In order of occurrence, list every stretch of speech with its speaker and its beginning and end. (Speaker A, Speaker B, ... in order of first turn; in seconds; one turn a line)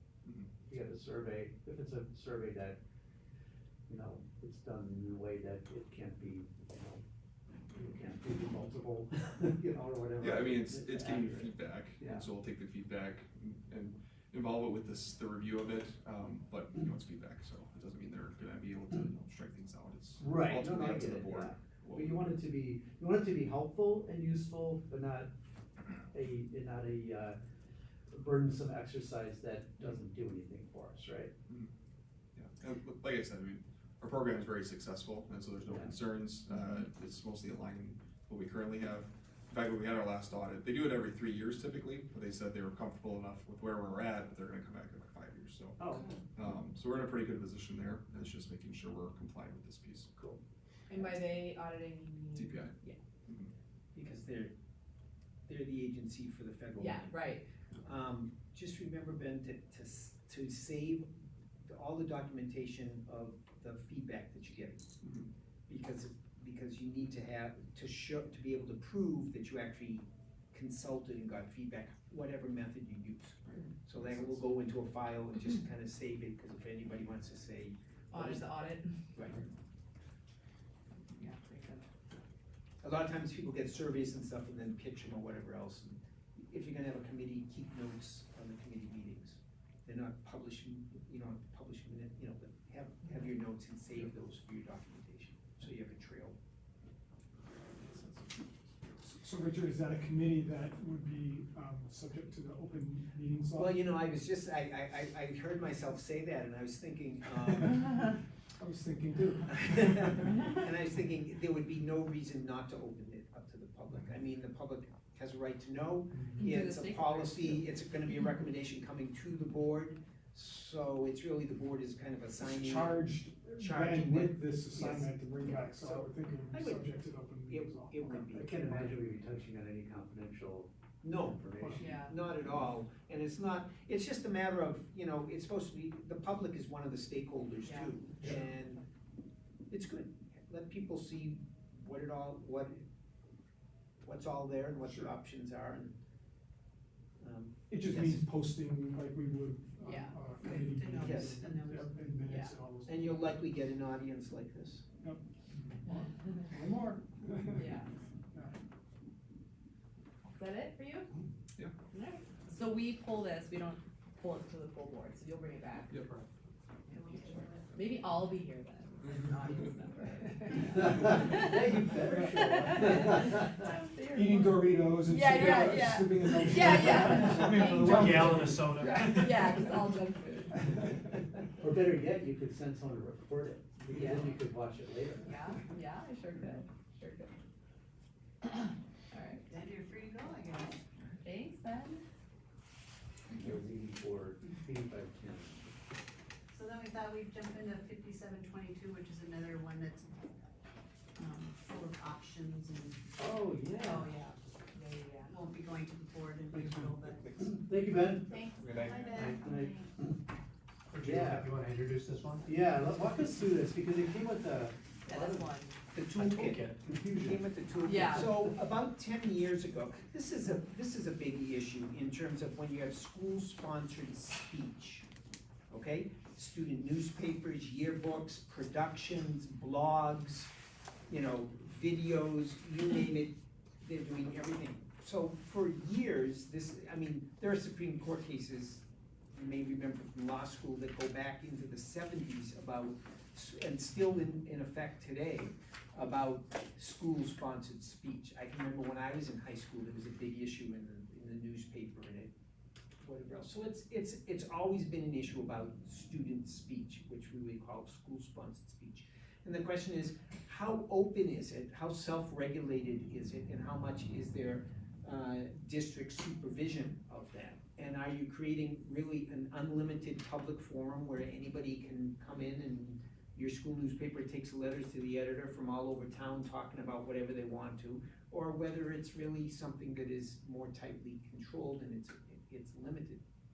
Speaker A: 0.2-0.5
Speaker B: 0.7-2.8
Speaker B: 3.9-7.0
Speaker B: 7.7-12.2
Speaker A: 10.2-22.4
Speaker B: 20.2-25.3
Speaker B: 26.1-27.4
Speaker B: 28.1-31.3
Speaker A: 31.5-31.7
Speaker A: 32.4-50.1
Speaker B: 35.7-35.9
Speaker B: 45.8-46.2
Speaker B: 50.2-50.4
Speaker C: 50.9-53.0
Speaker A: 52.3-52.7
Speaker A: 53.3-53.5
Speaker D: 54.0-54.5
Speaker D: 55.5-61.1
Speaker C: 56.8-57.4
Speaker D: 61.6-64.9
Speaker A: 65.0-65.3
Speaker D: 65.7-78.5
Speaker A: 73.5-74.3
Speaker C: 78.1-78.9
Speaker D: 79.1-79.5
Speaker C: 81.2-81.9
Speaker D: 82.8-96.4
Speaker E: 97.8-98.3
Speaker E: 99.0-103.8
Speaker D: 103.5-108.1
Speaker E: 108.6-110.3
Speaker D: 109.5-123.0
Speaker E: 116.1-116.5
Speaker C: 116.4-117.7
Speaker E: 122.4-128.7
Speaker D: 123.5-129.0
Speaker B: 128.3-132.0
Speaker D: 131.0-138.8
Speaker E: 131.6-131.9
Speaker C: 131.8-132.2
Speaker C: 137.6-138.0
Speaker D: 139.7-142.8
Speaker D: 144.0-145.9
Speaker D: 147.2-148.3
Speaker E: 147.7-153.3
Speaker C: 149.8-150.1
Speaker F: 150.4-152.3
Speaker D: 150.9-151.4
Speaker C: 152.2-152.5
Speaker D: 152.9-154.9
Speaker E: 155.0-158.5
Speaker C: 157.6-157.9
Speaker C: 160.3-161.1
Speaker C: 161.9-165.9
Speaker A: 165.9-166.2
Speaker F: 166.9-167.8
Speaker C: 167.0-180.9
Speaker B: 170.7-173.5
Speaker E: 174.1-178.8
Speaker G: 177.5-179.4
Speaker B: 181.6-185.4
Speaker C: 183.9-184.3
Speaker C: 185.2-187.3
Speaker C: 188.4-189.5
Speaker F: 189.5-190.8
Speaker C: 191.2-192.0
Speaker B: 193.3-195.7
Speaker F: 196.5-200.6
Speaker F: 201.2-203.0
Speaker B: 203.2-204.1
Speaker C: 203.8-205.4
Speaker F: 205.3-207.3
Speaker B: 207.4-210.2
Speaker F: 208.3-209.9
Speaker A: 208.6-209.0
Speaker G: 210.9-212.6
Speaker B: 211.0-211.6
Speaker B: 212.5-215.4
Speaker C: 215.1-215.8
Speaker D: 215.9-225.1
Speaker G: 216.2-217.4
Speaker C: 217.8-218.4
Speaker D: 225.7-230.5
Speaker D: 231.1-252.3
Speaker D: 253.0-283.2